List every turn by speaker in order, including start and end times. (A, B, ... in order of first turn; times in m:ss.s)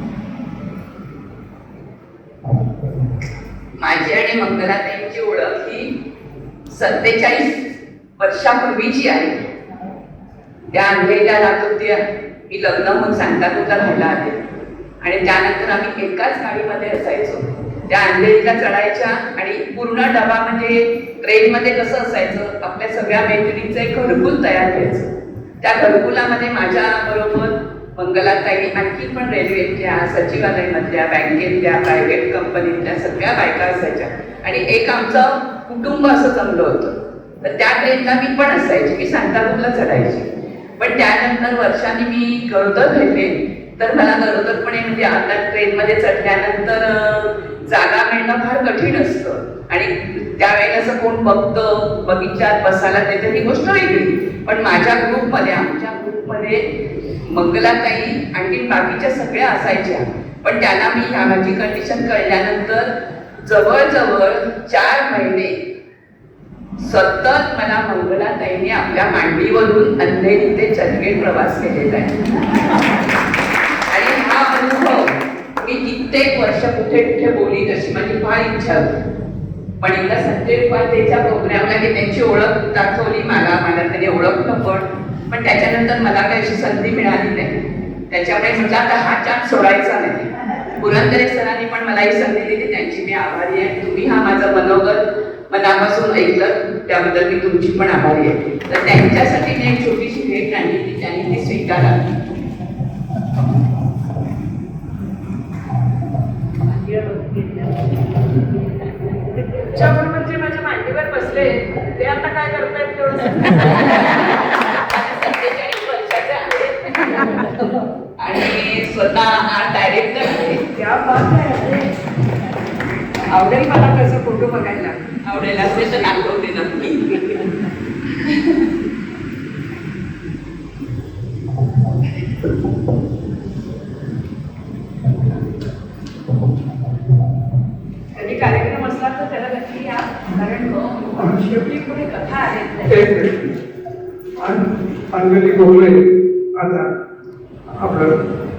0:03.8-0:05.9 A
0:06.7-0:07.7 A
0:08.2-0:09.4 A
0:10.7-0:14.4 A
0:15.0-0:25.1 A
0:25.6-0:40.3 A
0:40.8-0:56.7 A
0:57.3-1:02.9 A
1:03.4-1:05.6 A
1:06.8-1:12.2 A
1:13.9-1:18.9 A
1:19.8-1:27.6 A
1:28.1-1:42.0 A
1:46.8-1:47.7 B
1:49.6-1:54.3 B
1:55.1-1:57.2 A
1:58.2-2:00.8 A
2:00.8-2:01.8 B
2:03.3-2:05.2 B
2:05.3-2:07.4 A
2:18.2-2:23.0 B
2:22.9-2:23.3 C
2:24.4-2:26.9 C
2:27.8-2:28.1 C